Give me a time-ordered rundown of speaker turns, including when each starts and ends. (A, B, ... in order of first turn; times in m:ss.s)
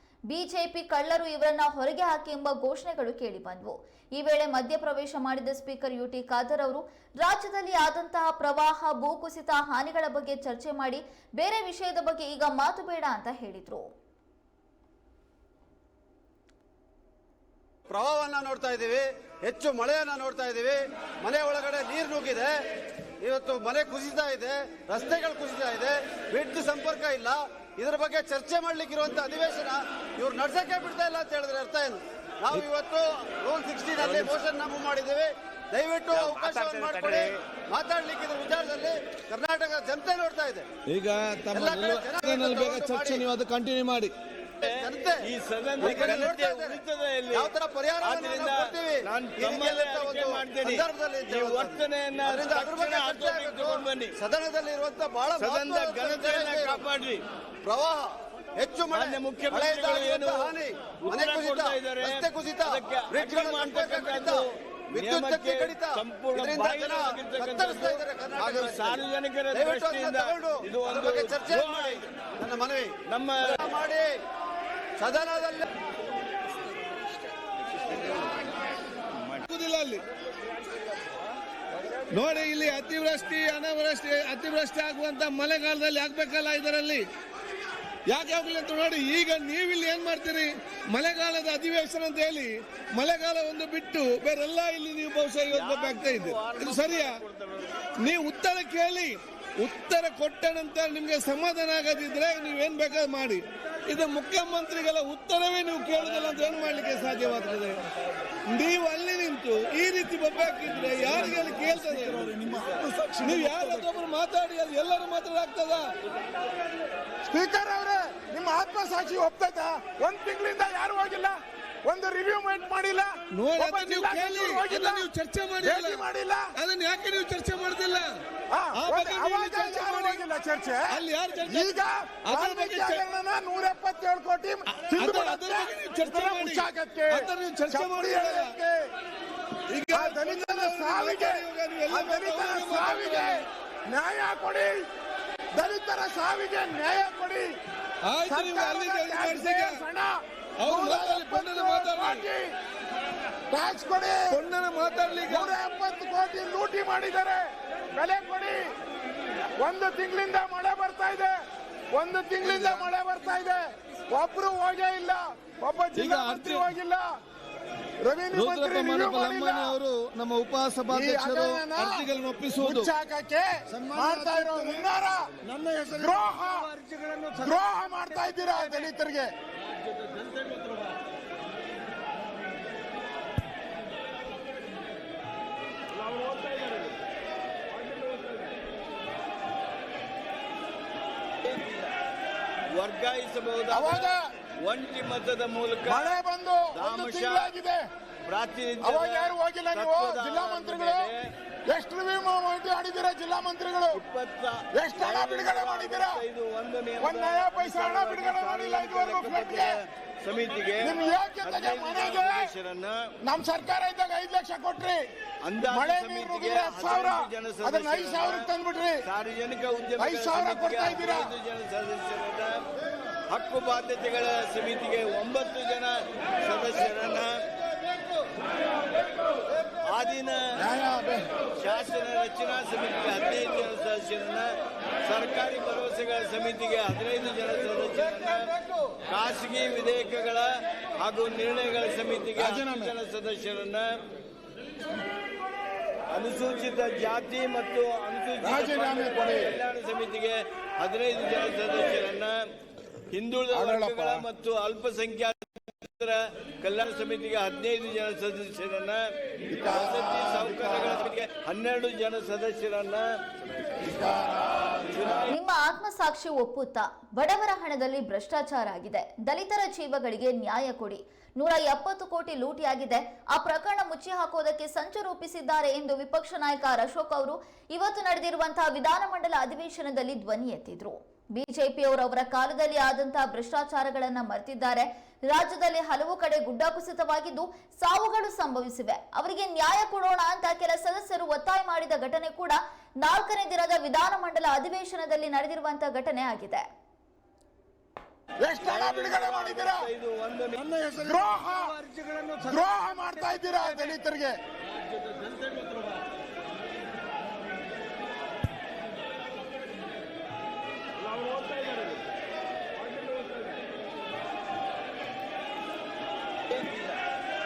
0:00.3-0:13.9 A
0:17.9-0:22.6 B
0:23.2-0:40.6 B
0:34.0-0:34.4 C
0:40.9-0:43.3 C
0:41.5-0:43.3 B
0:43.4-0:44.1 D
0:44.6-0:45.3 B
0:44.6-0:54.2 C
0:45.8-0:46.8 B
0:47.3-0:56.9 B
0:55.4-0:57.2 C
0:57.6-1:14.2 B
0:58.9-1:12.0 C
1:13.1-1:13.6 C
1:15.0-1:15.7 B
1:19.5-1:20.0 D
1:22.1-1:27.1 D
1:28.1-1:37.2 D
1:35.5-1:38.1 C
1:38.0-1:47.8 D
1:45.9-1:47.8 C
1:48.5-1:51.0 D
1:49.2-1:52.3 C
1:52.6-1:53.1 E
1:53.2-1:54.1 C
1:53.2-1:55.9 D
1:57.3-2:06.5 E
2:03.4-2:06.0 D
2:06.6-2:08.2 D
2:08.5-2:18.8 E
2:08.8-2:10.2 D
2:10.9-2:11.7 D
2:12.3-2:13.0 D
2:14.9-2:18.5 D
2:19.7-2:23.4 D
2:19.9-2:24.8 E
2:25.6-2:27.5 E
2:28.0-2:29.8 D
2:28.2-2:32.5 E
2:30.6-2:32.3 D
2:33.5-2:34.4 E
2:34.3-2:35.5 D
2:35.3-2:37.4 E
2:38.0-2:38.7 E
2:39.6-2:41.4 E
2:41.9-2:47.1 E
2:42.4-2:42.8 C
2:46.0-2:46.6 C
2:48.0-2:49.8 E
2:48.4-2:52.4 C
2:48.5-2:51.4 D
2:50.9-2:55.3 E
2:52.1-2:52.8 D
2:54.0-2:54.7 D
2:55.6-2:55.9 D
2:55.9-2:56.7 E
2:56.8-2:57.4 D
2:57.4-2:59.3 E
2:59.9-3:00.9 C
3:06.2-3:06.8 C
3:08.0-3:08.3 C
3:11.4-3:11.8 C
3:12.7-3:16.2 C
3:13.7-3:14.3 E
3:15.9-3:17.8 E
3:16.8-3:17.5 C
3:18.3-3:21.2 C
3:18.8-3:21.1 E
3:21.7-3:24.0 E
3:23.9-3:33.0 C
3:24.7-3:26.2 E
3:27.0-3:29.8 E
3:30.8-3:32.5 E
3:33.2-3:35.0 E
3:35.4-3:38.5 C
3:35.7-3:39.0 E
3:39.0-3:42.6 C
3:40.0-3:41.3 E
3:43.3-3:47.3 C
3:49.8-3:50.4 C
3:50.6-3:51.3 E
3:51.6-3:54.5 C
3:55.0-3:58.5 C
3:59.1-4:03.9 C
4:02.4-4:03.0 E
4:06.1-4:12.3 C
4:08.4-4:09.5 E
4:13.1-4:23.0 C
4:13.5-4:14.3 E
4:19.5-4:21.1 E
4:23.8-4:25.2 E
4:24.9-4:25.3 C
4:25.3-4:56.6 A
4:58.4-4:59.9 E
4:58.6-5:01.0 C
5:01.0-5:01.8 E
5:02.4-5:04.4 E
5:04.9-5:06.0 C
5:11.3-5:11.9 C
5:13.0-5:13.4 C
5:16.5-5:16.9 C